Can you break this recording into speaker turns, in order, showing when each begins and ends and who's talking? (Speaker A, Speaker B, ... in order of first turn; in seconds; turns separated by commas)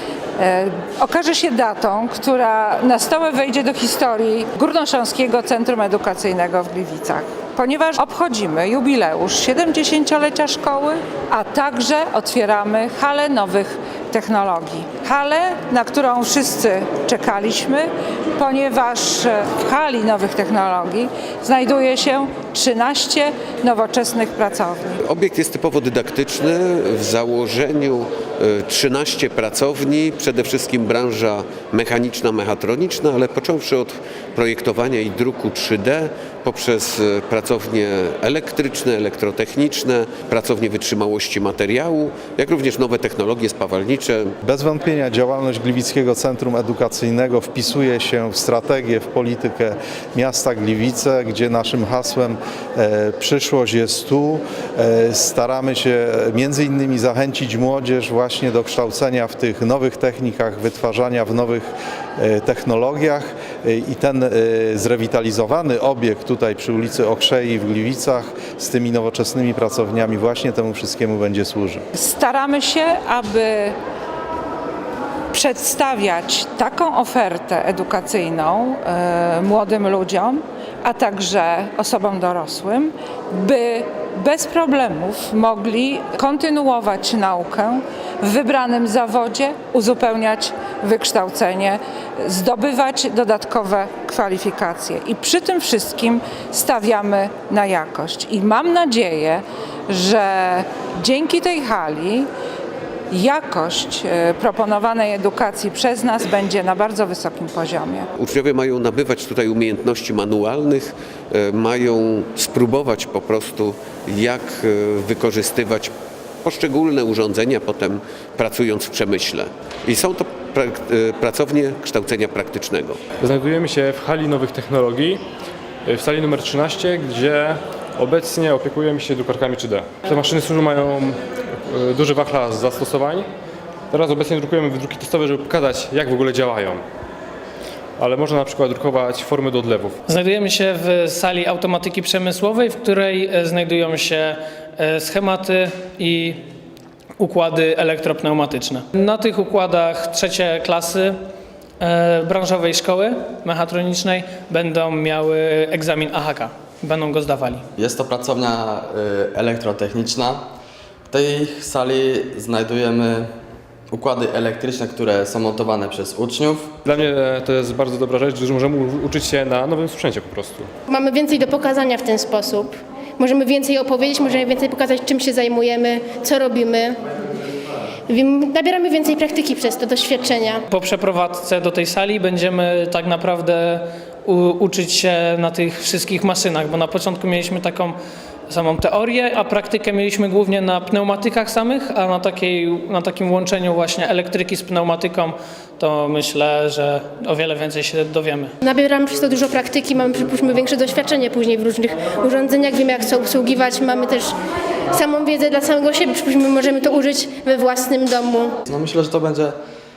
Speaker A: 0.4-24.9, Speaker B: 25.1-44.3, Speaker C: 44.4-71.8, Speaker A: 71.9-73.8, Speaker A: 75.3-102.3, Speaker A: 103.1-108.1, Speaker B: 108.2-115.9, Speaker B: 116.4-123.0, Speaker D: 123.2-125.2, Speaker D: 125.9-133.3, Speaker D: 133.9-136.8, Speaker D: 138.0-140.0, Speaker E: 140.1-146.4, Speaker E: 147.2-151.2, Speaker E: 151.8-157.7, Speaker F: 157.8-160.4, Speaker F: 161.1-163.3, Speaker F: 163.9-166.7, Speaker D: 166.9-170.7, Speaker G: 170.9-177.0, Speaker G: 178.1-180.6, Speaker E: 180.7-188.0, Speaker E: 188.5-198.5, Speaker G: 198.6-204.4, Speaker G: 204.9-208.6, Speaker F: 208.7-209.6